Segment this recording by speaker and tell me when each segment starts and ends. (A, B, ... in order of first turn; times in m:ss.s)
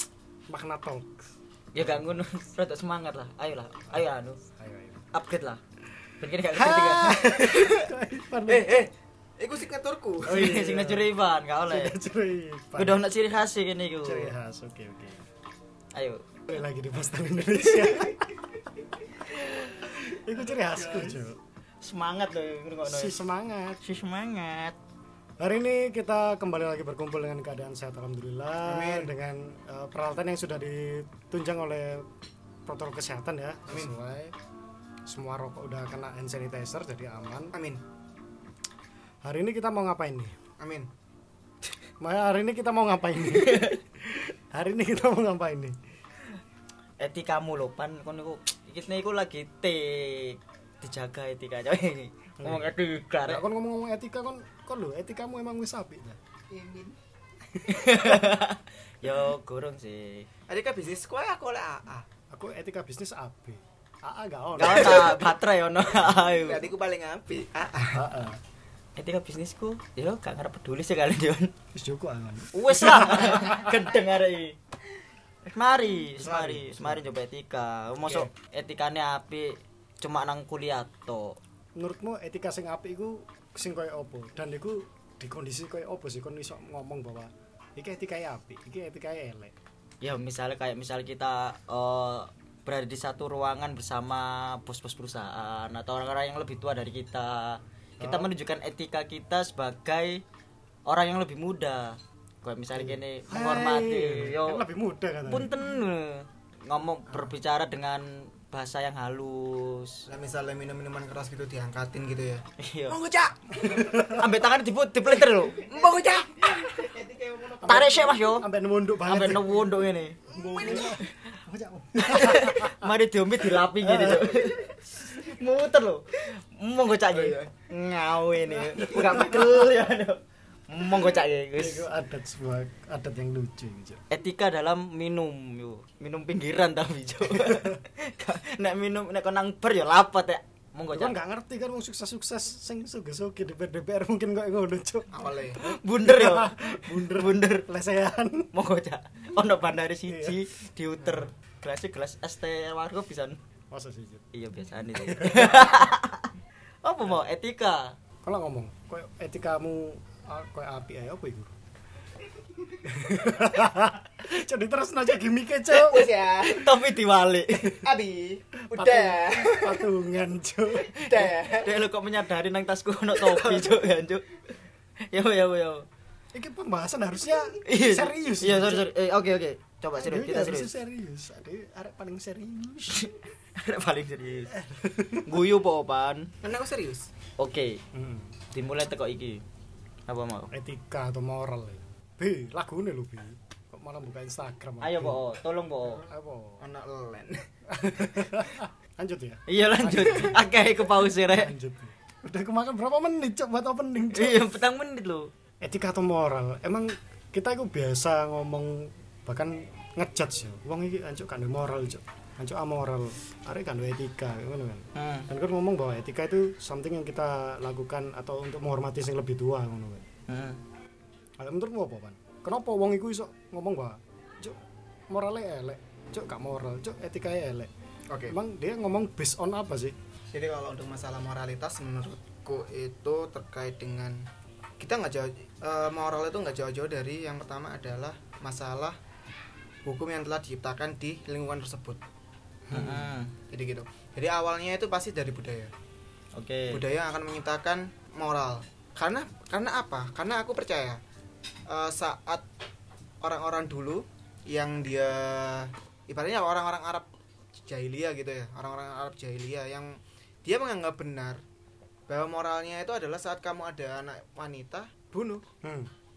0:00.5-0:02.2 A
0:01.7-0:04.4 B
0:04.6-0:05.0 A
0:05.1-0:05.6 B
0:06.2-0:07.9 B
0:06.5-0:08.9 A
0:08.4-0:10.6 C
0:10.3-0:11.1 A
0:10.3-0:12.0 B
0:11.7-0:13.0 A
0:12.8-0:14.3 B
0:14.0-0:15.2 A
0:15.9-0:16.4 B
0:16.5-0:18.3 A
0:17.7-0:18.1 B
0:19.3-0:19.8 B
0:19.8-0:21.4 A
0:20.8-0:21.1 B
0:21.8-0:23.2 B
0:22.9-0:23.8 A
0:23.8-0:24.8 B
0:25.4-0:32.0 A
0:28.6-0:29.1 C
0:32.7-0:34.3 A
0:33.7-0:34.0 C
0:35.1-0:37.5 A
0:37.5-0:37.8 C
0:39.2-0:40.3 A
0:40.6-0:40.9 C
0:42.0-0:45.8 A
0:43.2-0:43.8 B
0:47.0-0:53.4 B
0:52.4-0:52.7 A
0:53.2-0:56.2 A
0:56.5-0:57.0 C
0:57.6-0:58.2 A
0:57.7-1:00.3 B
1:00.5-1:02.1 C
1:02.3-1:05.2 A
1:04.6-1:06.6 B
1:06.3-1:08.1 C
1:07.9-1:08.4 A
1:09.0-1:11.5 B
1:11.8-1:13.7 A
1:12.5-1:14.6 B
1:15.5-1:21.4 B
1:16.2-1:17.0 A
1:21.8-1:29.5 A
1:30.0-1:40.2 B
1:38.0-1:38.3 A
1:40.9-1:44.6 B
1:42.8-1:45.5 A
1:45.3-1:50.0 B
1:50.1-1:54.1 C
1:52.6-1:53.0 B
1:53.6-1:54.3 A
1:53.8-1:55.7 B
1:55.5-1:57.9 C
1:56.5-1:56.9 A
1:57.6-1:59.7 A
1:57.6-1:58.4 B
1:59.1-2:01.1 B
2:00.3-2:02.9 A
2:02.0-2:11.8 B
2:03.8-2:05.3 A
2:07.1-2:07.7 C
2:08.7-2:09.7 A
2:11.5-2:14.0 A
2:14.1-2:21.2 B
2:17.3-2:17.8 A
2:20.9-2:28.5 A
2:25.1-2:25.6 C
2:25.6-2:27.7 B
2:28.5-2:33.4 B
2:30.1-2:30.4 A
2:31.0-2:31.3 A
2:33.7-2:34.2 A
2:34.3-2:36.3 B
2:35.0-2:35.9 A
2:36.8-2:38.0 B
2:38.2-2:41.5 A
2:42.8-2:46.0 A
2:45.7-2:46.8 C
2:46.4-2:47.8 B
2:47.8-2:49.9 C
2:48.6-2:51.3 A
2:50.8-2:51.8 C
2:51.6-2:55.9 B
2:53.2-2:53.8 C
2:56.3-2:58.9 A
2:57.6-3:00.7 B
2:59.9-3:03.1 A
3:03.0-3:04.5 B
3:04.5-3:05.4 A
3:05.2-3:06.3 B
3:06.4-3:07.1 C
3:07.4-3:07.8 B
3:07.9-3:08.4 A
3:08.5-3:09.4 B
3:10.1-3:10.5 B
3:10.5-3:15.2 A
3:14.8-3:16.0 B
3:16.0-3:16.6 A
3:16.6-3:18.2 C
3:17.7-3:20.4 A
3:19.5-3:21.5 B
3:21.3-3:24.4 A
3:24.1-3:25.3 B
3:25.6-3:40.0 A
3:35.0-3:35.3 B
3:40.3-3:40.6 B
3:41.4-3:44.6 A
3:45.1-3:47.7 A
3:48.1-3:48.3 C
3:48.3-3:49.9 A
3:50.3-3:54.3 C
3:54.8-3:59.0 C
3:59.8-4:02.0 C
4:02.7-4:03.1 A
4:02.7-4:03.3 B
4:03.5-4:05.7 C
4:06.4-4:06.8 B
4:06.7-4:11.0 C
4:11.7-4:12.4 C
4:13.2-4:21.4 C
4:22.1-4:25.4 C
4:25.6-4:25.9 A